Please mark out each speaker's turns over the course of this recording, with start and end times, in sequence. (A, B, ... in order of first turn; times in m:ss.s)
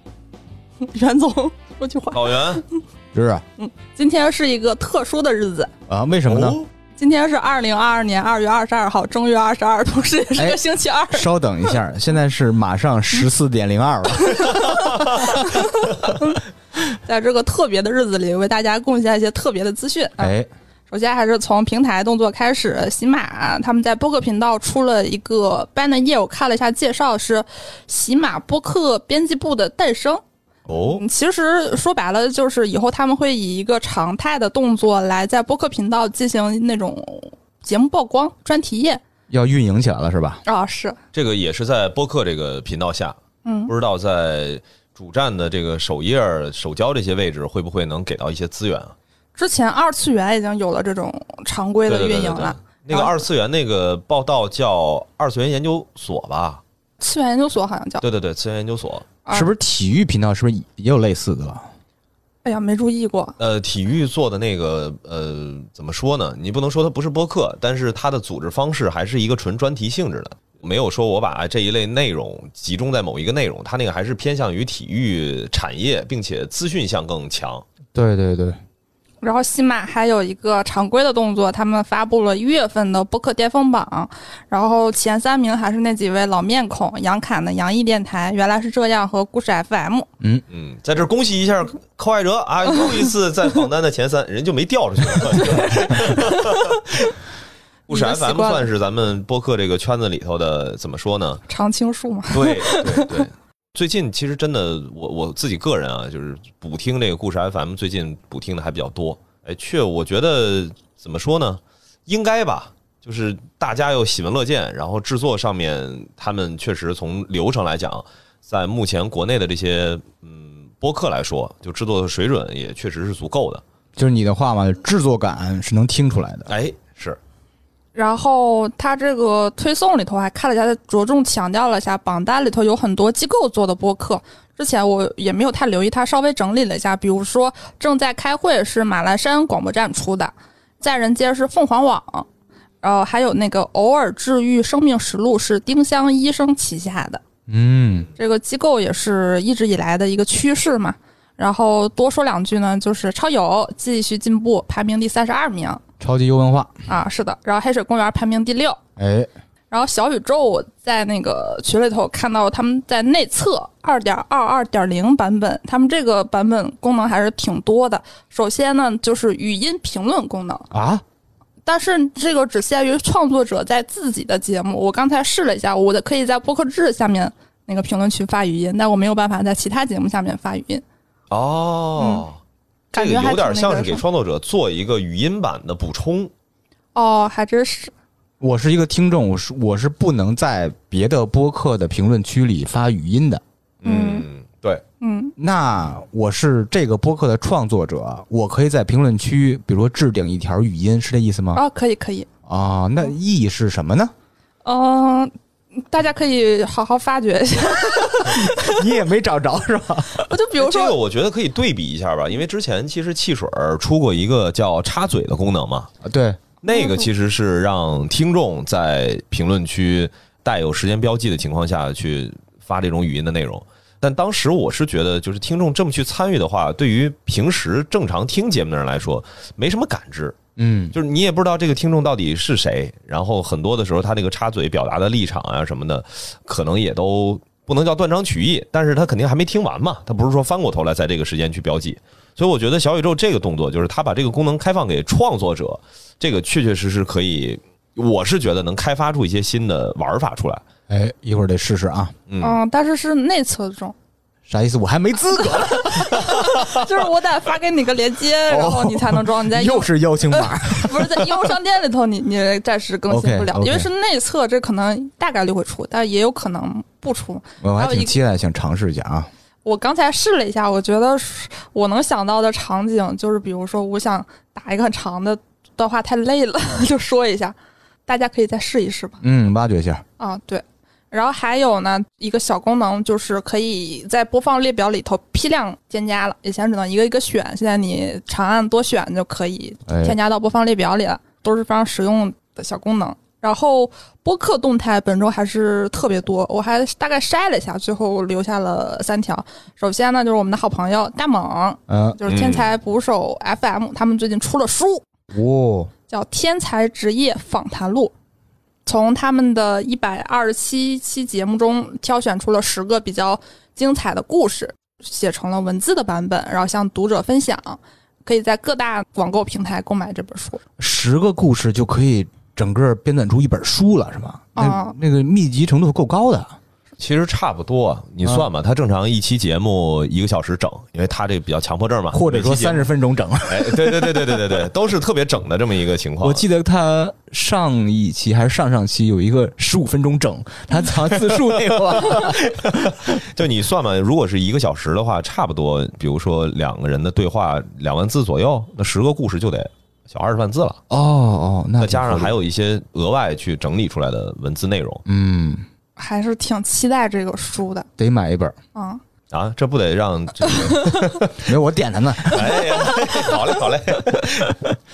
0:00.8-0:02.8 A
0:02.1-0:02.6 B
0:03.1-0:03.4 C
0:03.6-0:05.7 A
0:05.9-0:06.6 C
0:06.3-0:06.7 B
0:07.0-0:11.3 A
0:11.1-0:15.3 C
0:14.2-0:16.4 A
0:17.0-0:20.3 A
0:20.2-0:20.5 C
0:20.9-0:30.2 A
0:30.7-0:31.0 B
0:30.9-0:39.0 A
0:39.3-0:40.4 C
0:40.5-0:41.0 A
0:41.1-0:43.2 B
0:43.4-0:43.7 A
0:43.7-0:49.0 B
0:49.4-0:53.2 A
0:51.9-0:56.6 B
0:57.0-0:58.0 A
0:58.0-0:59.1 B
0:59.2-0:59.5 A
0:59.3-1:01.7 C
1:02.4-1:03.4 A
1:03.4-1:17.6 B
1:17.9-1:18.6 C
1:19.2-1:30.1 A
1:30.5-1:37.1 B
1:35.2-1:36.5 A
1:37.9-1:41.4 B
1:37.9-1:38.7 A
1:41.5-1:43.2 A
1:42.3-2:03.6 B
2:04.0-2:06.5 C
2:06.5-2:07.2 B
2:08.0-2:22.3 A
2:22.8-2:27.2 A
2:27.5-2:28.1 C
2:28.2-2:35.8 A
2:36.0-2:36.8 C
2:36.9-2:38.8 A
2:39.0-2:39.3 C
2:39.7-2:50.7 A
2:50.7-2:51.0 C
2:51.7-3:00.8 A
3:01.3-3:02.4 B
3:02.0-3:02.2 A
3:02.9-3:04.0 A
3:03.0-3:06.3 B
3:07.0-3:07.9 A
3:08.4-3:13.4 C
3:13.8-3:14.8 B
3:13.9-3:14.3 A
3:15.0-3:15.4 A
3:15.4-3:21.6 C
3:21.5-3:22.3 A
3:22.5-3:24.1 C
3:24.6-3:28.9 A
3:28.2-3:30.3 C
3:30.2-3:31.0 A
3:30.6-3:35.9 B
3:36.0-3:36.4 C
3:36.6-3:50.4 B
3:36.7-3:37.1 A
3:50.6-3:51.0 C
3:50.9-4:10.6 B
4:10.9-4:12.2 C
4:12.3-4:12.6 B
4:12.4-4:14.0 A
4:14.5-4:16.7 C
4:15.4-4:28.2 A
4:18.5-4:21.3 C
4:23.1-4:23.9 C
4:27.6-4:29.3 C
4:29.6-4:37.6 A
4:38.1-4:39.2 A
4:39.2-4:40.0 C
4:40.2-5:05.0 A
4:49.9-4:50.2 C
5:01.9-5:02.2 C
5:02.3-5:02.7 B
5:05.3-5:05.9 C
5:06.1-5:08.1 A
5:08.9-5:20.6 A
5:20.8-5:26.6 C
5:24.6-5:25.0 A
5:27.0-5:32.9 B
5:32.1-5:34.3 C
5:33.5-5:36.4 B
5:36.2-5:43.2 C
5:41.1-5:50.8 B
5:50.9-5:52.3 C
5:51.8-5:55.0 B
5:55.1-5:55.6 C
5:56.0-5:57.9 A
5:58.0-5:58.6 C
5:58.8-5:59.0 A
5:59.3-6:01.4 B
6:00.5-6:01.1 A
6:01.4-6:03.1 C
6:02.3-6:04.6 B